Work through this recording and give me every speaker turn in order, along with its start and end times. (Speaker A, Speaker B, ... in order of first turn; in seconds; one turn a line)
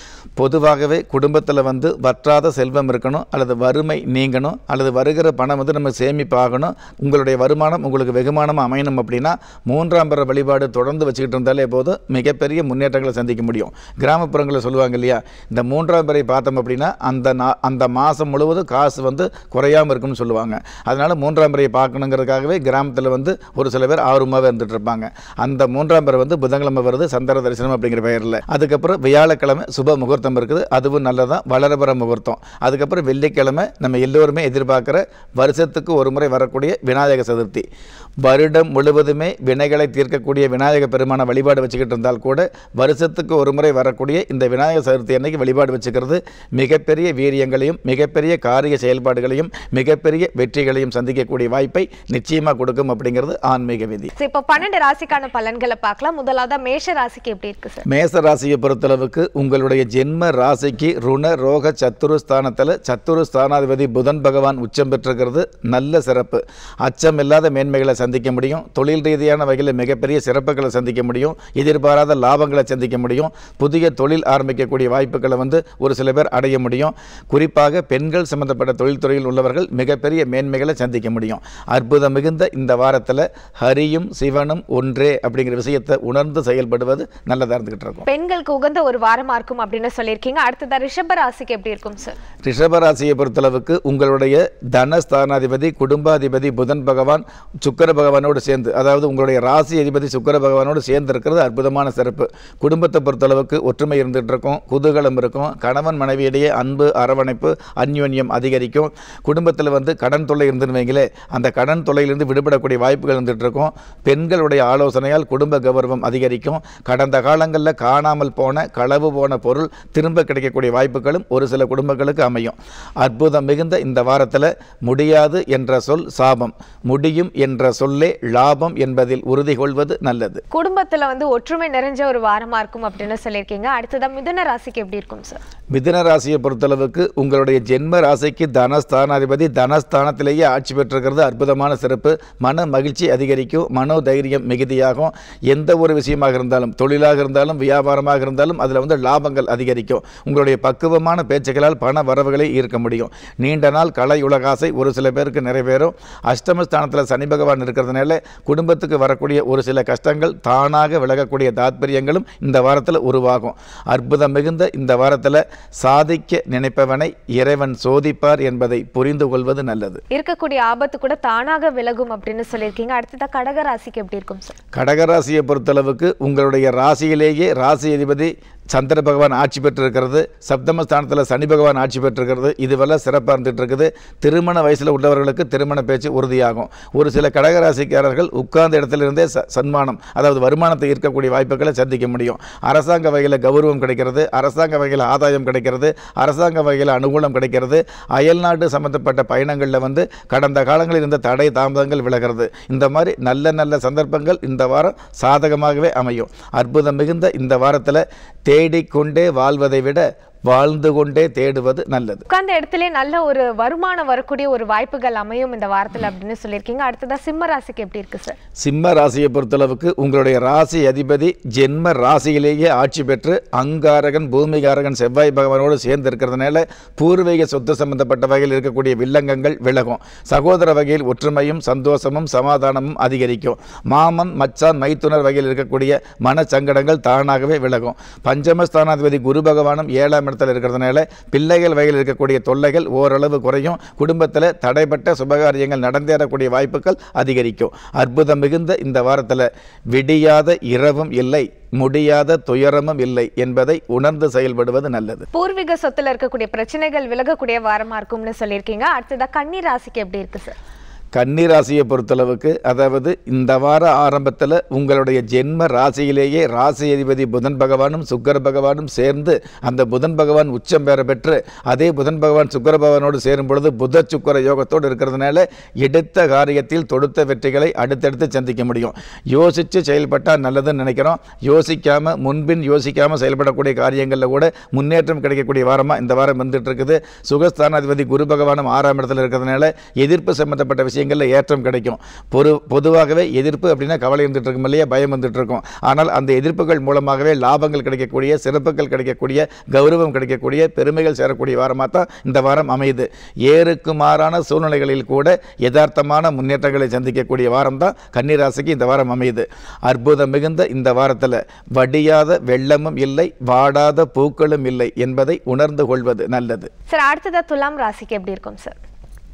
Speaker A: 0.4-37.6
Speaker A: 38.2-54.1
Speaker B: 54.2-57.9
Speaker A: 57.9-88.1
Speaker B: 88.1-92.2
Speaker A: 92.4-130.4
Speaker B: 130.5-135.4
Speaker A: 135.7-170.0
Speaker B: 170.1-174.6
Speaker A: 174.7-212.2
Speaker B: 212.3-218.4
Speaker A: 218.6-255.2
Speaker B: 255.3-260.6
Speaker A: 261.1-316.7
Speaker B: 316.9-318.8